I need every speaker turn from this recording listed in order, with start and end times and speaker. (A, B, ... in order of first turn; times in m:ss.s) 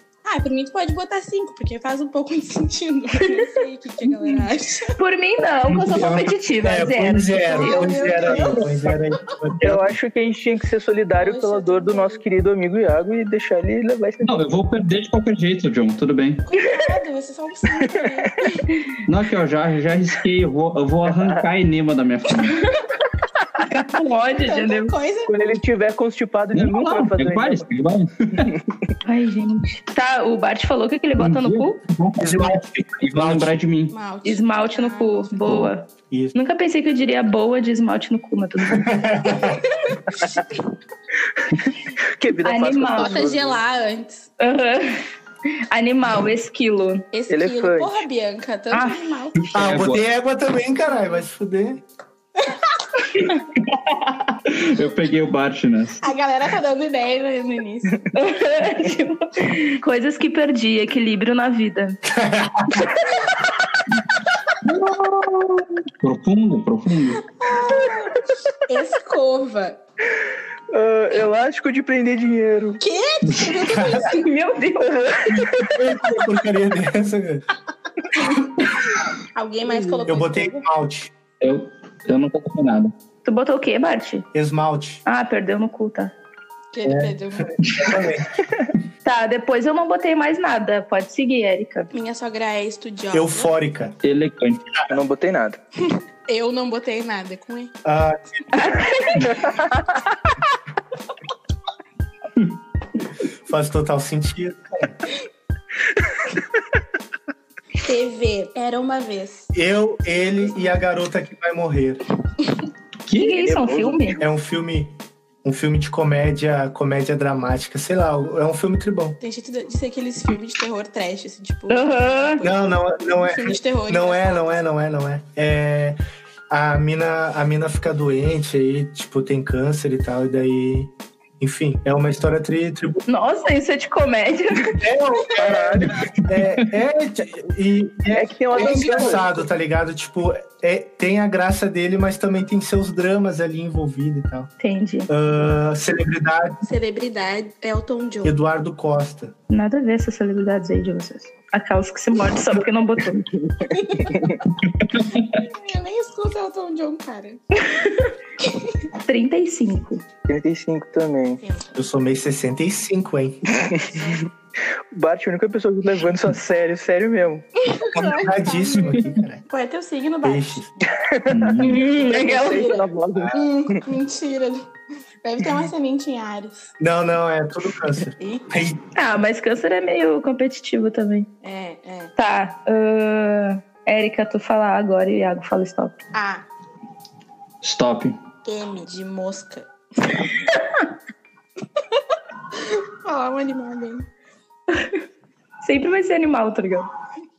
0:00.2-0:05.0 A
0:05.0-0:08.1 B
0:05.8-0:10.0 C
0:07.5-0:08.7 A
0:09.6-0:14.5 D
0:11.2-0:12.2 A
0:14.2-0:16.4 E
0:16.5-0:18.7 A
0:19.1-0:22.6 E
0:21.1-0:21.4 D
0:23.6-0:24.9 B
0:24.4-0:25.4 A
0:25.3-0:27.7 D
0:26.5-0:28.5 E
0:29.0-0:31.8 B
0:31.2-0:33.9 E
0:32.2-0:33.6 C
0:33.9-0:35.4 A
0:34.2-0:38.9 B
0:38.7-0:39.6 C
0:42.0-0:43.6 D
0:42.4-0:43.2 B
0:43.0-0:44.3 A
0:44.4-0:45.0 B
0:45.7-0:47.0 B
0:47.1-0:49.7 A
0:47.3-0:48.0 D
0:48.7-0:49.0 B
0:49.5-0:50.0 E
0:49.5-0:51.8 C
0:54.5-0:56.0 E
0:56.0-0:58.0 A
0:58.2-1:02.0 B
1:02.1-1:02.9 C
1:04.6-1:07.2 E
1:07.4-1:09.8 A
1:10.7-1:12.8 D
1:12.8-1:14.2 A
1:13.7-1:14.1 C
1:14.0-1:15.4 B
1:15.4-1:17.4 C
1:19.3-1:20.6 A
1:20.1-1:21.1 C
1:21.4-1:22.9 E
1:23.2-1:24.3 B
1:24.3-1:25.0 C
1:25.1-1:26.1 B
1:26.7-1:27.5 A
1:26.8-1:28.3 C
1:29.0-1:31.9 B
1:31.9-1:33.5 A
1:33.1-1:34.0 C
1:34.0-1:34.6 E
1:34.9-1:35.6 D
1:36.3-1:37.7 A
1:37.8-1:38.4 C
1:38.5-1:39.4 B
1:43.5-1:45.0 C
1:47.8-1:49.5 A
1:49.5-1:52.0 C
1:53.1-1:54.2 B
1:53.3-1:54.2 D
1:54.2-1:59.2 C
1:59.2-2:04.6 A
2:01.7-2:02.4 B
2:02.4-2:06.0 C
2:06.5-2:13.0 C
2:13.1-2:14.8 B
2:14.7-2:24.5 C
2:15.4-2:15.9 D
2:18.1-2:19.3 D
2:18.6-2:19.4 A
2:24.6-2:25.1 B
2:25.1-2:26.6 C
2:26.6-2:28.4 A
2:28.2-2:29.3 C
2:29.5-2:33.3 B
2:33.7-2:34.2 A
2:34.1-2:34.4 D
2:35.1-2:37.4 A
2:37.7-2:38.1 B
2:38.4-2:38.7 A
2:39.0-2:40.0 B
2:40.3-2:41.4 D
2:41.4-2:41.7 A
2:41.8-2:43.4 C
2:43.6-2:43.9 D
2:44.0-2:44.2 A
2:44.9-2:47.4 D
2:47.7-2:50.7 A
2:47.9-2:49.4 C
2:50.2-2:50.7 C
2:50.9-2:53.4 D
2:51.3-2:51.9 E
2:51.6-2:52.7 B
2:52.1-2:54.7 A
2:53.2-2:53.4 C
2:55.2-2:56.7 A
2:56.8-2:58.8 C
2:58.2-2:58.5 A
2:59.0-3:01.3 B
3:01.4-3:02.1 A
3:02.2-3:06.0 B
3:06.1-3:06.4 A
3:07.6-3:08.2 E
3:08.4-3:10.2 A
3:13.0-3:14.1 A
3:15.6-3:16.9 B